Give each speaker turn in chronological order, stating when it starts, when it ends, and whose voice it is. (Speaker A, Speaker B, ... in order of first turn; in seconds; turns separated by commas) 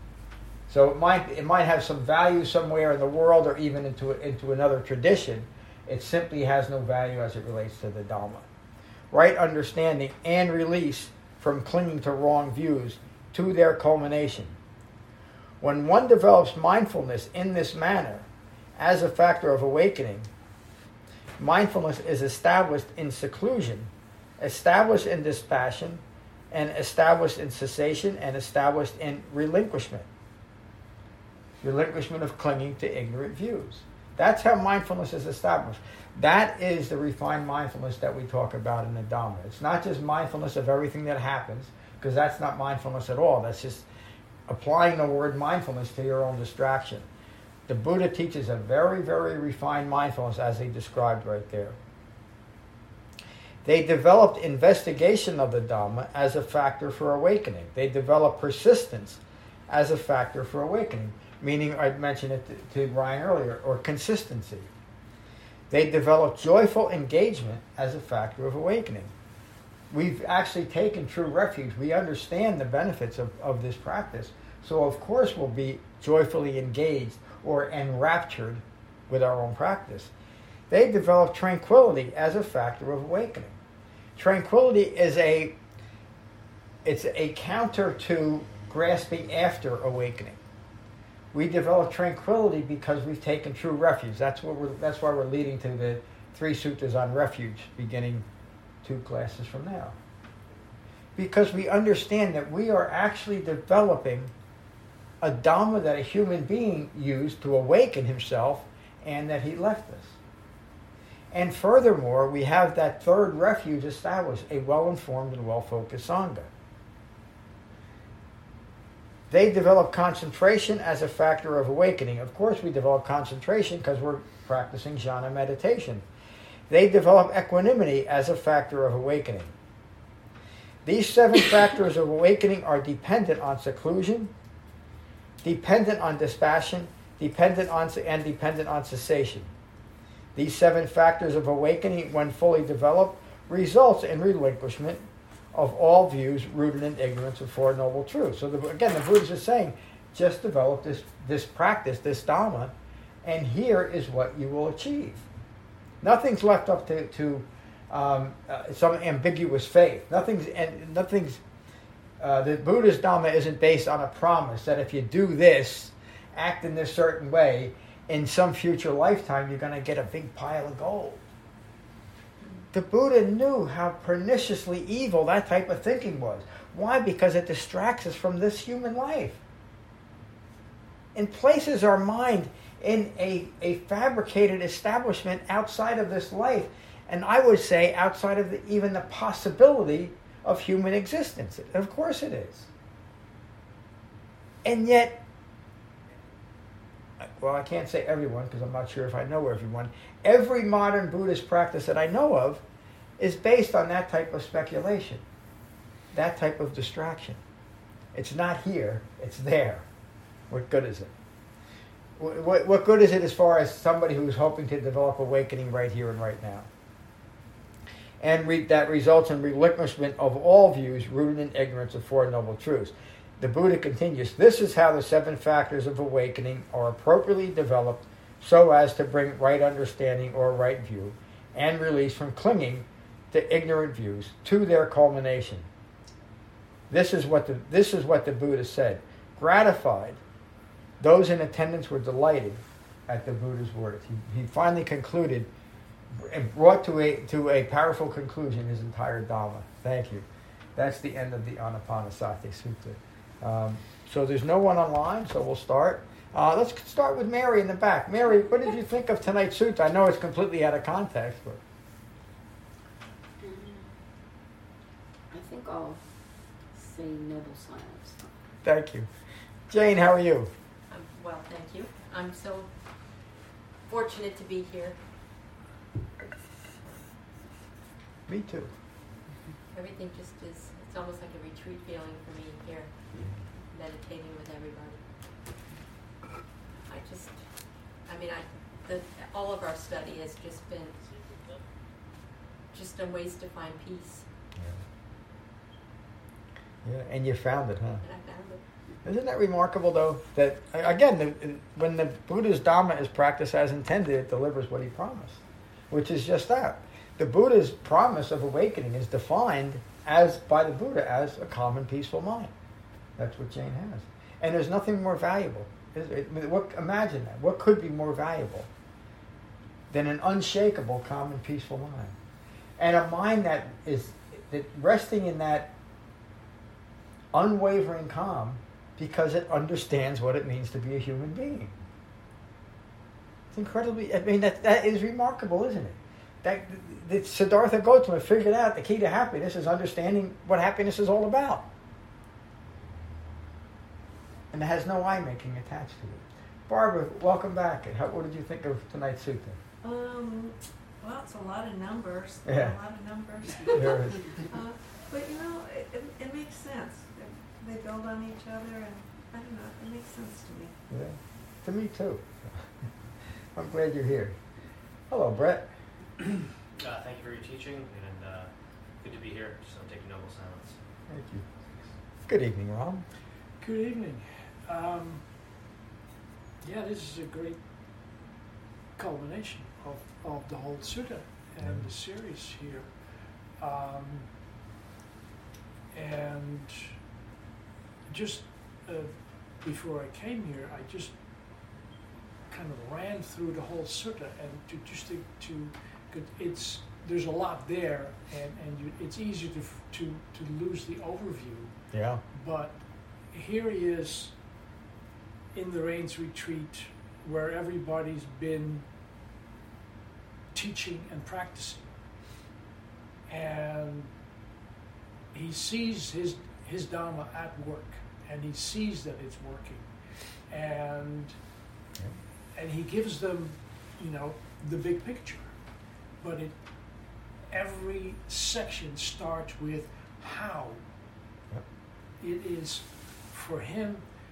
Speaker A: 0.7-8.5, Speaker A: 9.1-14.6, Speaker A: 15.6-20.3, Speaker A: 21.4-30.1, Speaker A: 31.6-43.9, Speaker A: 44.5-47.0, Speaker A: 47.7-51.8, Speaker A: 53.6-64.7, Speaker A: 65.7-69.1, Speaker A: 69.9-80.1, Speaker A: 80.7-83.6, Speaker A: 84.2-85.5, Speaker A: 86.8-90.4, Speaker A: 91.3-98.2, Speaker A: 98.8-100.0, Speaker A: 101.2-104.3, Speaker A: 105.2-110.2, Speaker A: 111.3-116.5, Speaker A: 119.3-126.0, Speaker A: 126.7-129.5, Speaker A: 130.8-134.3, Speaker A: 135.4-139.5, Speaker A: 140.3-152.7, Speaker A: 153.2-155.3, Speaker A: 156.0-161.4, Speaker A: 162.2-171.2, Speaker A: 172.7-179.4, Speaker A: 181.1-192.7, Speaker A: 194.6-195.2, Speaker A: 197.2-202.6, Speaker A: 203.2-205.2, Speaker A: 206.1-207.4, Speaker A: 208.1-209.8, Speaker A: 210.5-211.1, Speaker A: 212.2-216.7, Speaker A: 218.2-235.7, Speaker A: 236.9-240.2, Speaker A: 241.0-245.5, Speaker A: 246.2-250.2, Speaker A: 250.8-261.6, Speaker B: 263.4-263.9, Speaker B: 265.3-266.0, Speaker B: 266.7-268.2, Speaker A: 268.6-269.1, Speaker A: 269.7-270.5, Speaker C: 270.9-273.3, Speaker C: 273.8-275.0, Speaker A: 278.3-278.7, Speaker C: 279.7-282.9, Speaker C: 283.6-285.0, Speaker C: 286.8-287.4, Speaker C: 288.0-291.0, Speaker C: 292.7-294.2, Speaker A: 296.8-298.0, Speaker C: 298.0-298.6, Speaker A: 299.0-305.4, Speaker A: 305.9-312.5, Speaker A: 313.2-318.7, Speaker A: 319.9-322.1, Speaker A: 322.8-325.7, Speaker A: 327.3-331.7, Speaker A: 333.5-341.6, Speaker A: 344.5-349.6, Speaker D: 349.8-360.8, Speaker A: 352.4-352.8, Speaker A: 353.7-354.2, Speaker A: 360.9-362.7, Speaker A: 363.5-364.4, Speaker A: 365.1-365.7, Speaker E: 366.7-370.8, Speaker A: 371.1-371.4, Speaker A: 372.2-373.1, Speaker F: 373.6-375.3, Speaker F: 376.6-377.6, Speaker F: 378.9-384.3, Speaker F: 385.9-387.0, Speaker F: 388.1-391.2, Speaker F: 392.5-404.4, Speaker A: 401.9-402.2, Speaker F: 405.5-408.8, Speaker F: 410.5-411.9, Speaker F: 413.3-414.1, Speaker F: 415.3-421.4, Speaker F: 422.5-430.8, Speaker F: 432.2-434.1